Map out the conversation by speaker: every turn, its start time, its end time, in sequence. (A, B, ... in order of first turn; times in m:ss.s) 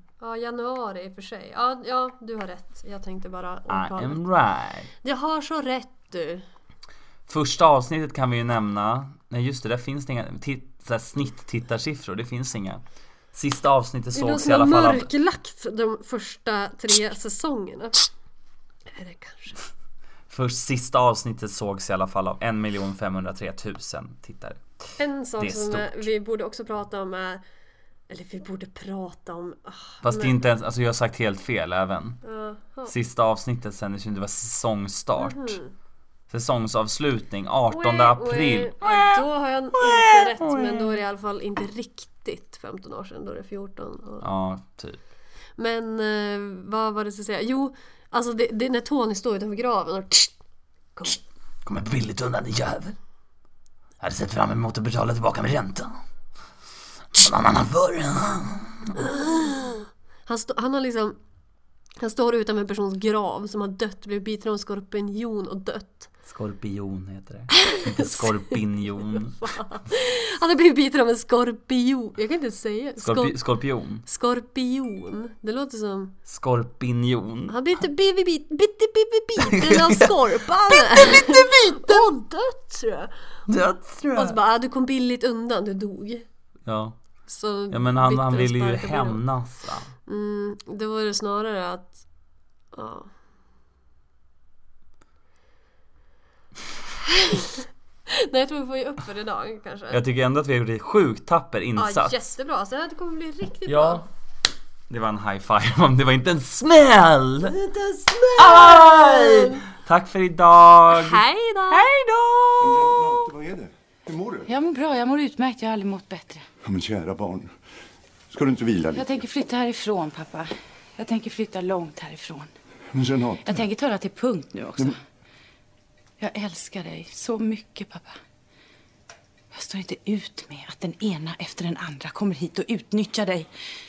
0:00.2-0:04.2 A
0:03.7-0:04.9 B
0:05.0-0:06.4 A
0:07.3-0:12.8 B
0:13.3-0:15.1 B
0:14.1-0:18.1 A
0:18.9-0:19.6 A
0:20.3-0:24.6 B
0:25.0-0:27.4 A
0:25.4-0:26.1 B
0:28.1-0:30.4 A
0:30.0-0:32.2 B
0:32.2-0:32.9 A
0:32.8-0:35.6 B
0:35.2-0:35.7 A
0:36.3-0:39.2 B
0:37.7-0:44.3 A
0:39.8-0:41.0 B
0:44.2-0:45.0 B
0:45.6-0:50.3 A
0:51.0-0:51.2 A
0:51.6-0:53.0 B
0:54.0-0:56.0 B
0:57.1-0:59.0 B
0:59.0-1:01.2 A
1:02.0-1:06.1 A
1:06.2-1:09.4 B
1:07.5-1:13.4 A
1:13.0-1:14.0 B
1:14.0-1:16.1 A
1:16.3-1:17.6 B
1:17.5-1:23.1 A
1:19.4-1:22.1 B
1:23.5-1:24.4 B
1:24.1-1:26.2 A
1:26.6-1:27.0 B
1:27.3-1:29.2 A
1:27.7-1:29.9 B
1:30.0-1:32.0 A
1:32.7-1:33.1 A
1:37.0-1:40.0 A
1:39.9-1:42.1 B
1:41.8-1:44.0 A
1:43.7-1:44.0 B
1:44.9-1:47.6 B
1:47.5-1:49.6 A
1:48.4-1:51.2 B
1:48.6-1:49.0 C
1:50.9-1:51.9 A
1:51.7-1:53.1 C
1:52.6-1:54.5 D
1:54.5-1:56.5 C
1:56.6-1:57.5 D
1:58.3-1:59.2 D
1:58.9-2:02.5 C
2:02.9-2:03.7 D
2:03.4-2:05.0 C
2:06.2-2:08.2 C
2:09.5-2:13.5 C